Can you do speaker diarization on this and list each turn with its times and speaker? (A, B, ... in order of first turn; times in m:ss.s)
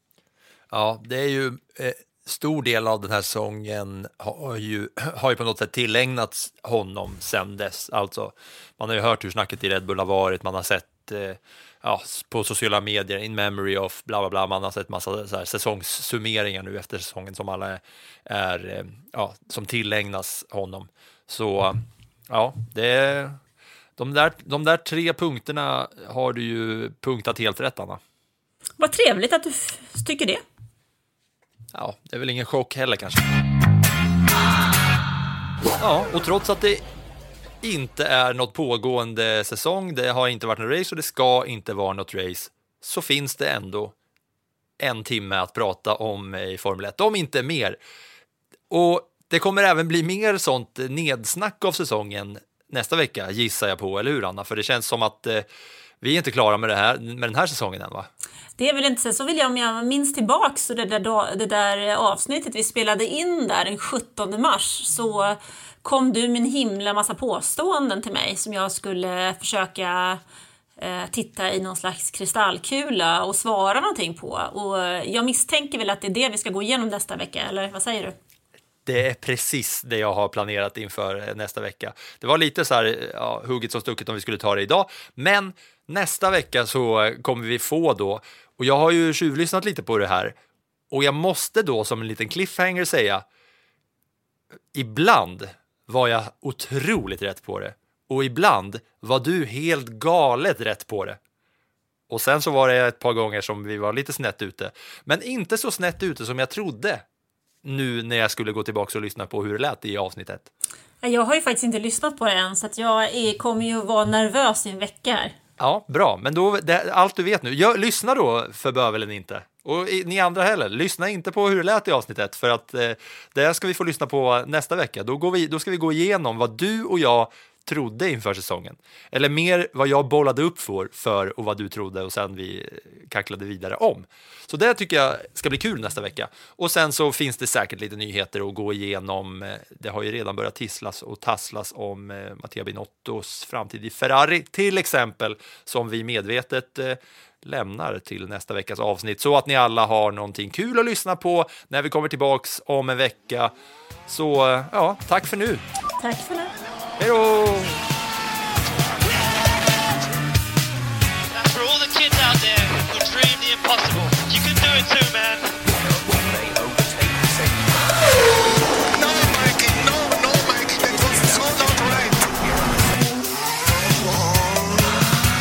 0:00.7-0:23.4 A
0:24.0-0:28.0 A
0:28.8-0:30.4 B
0:31.7-0:33.3 A
0:35.8-0:36.8 A
0:37.6-0:43.9 A
0:44.8-0:47.8 A
0:48.7-0:55.4 A
0:56.0-0:58.1 A
0:58.6-1:10.2 B
1:10.8-1:18.2 B
1:18.8-1:30.3 A
1:30.9-1:33.2 A
1:34.7-1:41.2 A
1:42.1-1:47.0 A
1:47.6-1:50.5 A
1:51.0-1:55.4 B
1:55.6-2:33.5 A
2:34.1-2:35.6 A
2:36.0-2:36.5 B
2:37.0-2:37.8 A
2:41.3-2:45.6 C
2:48.9-2:52.4 D
2:53.8-2:55.0 D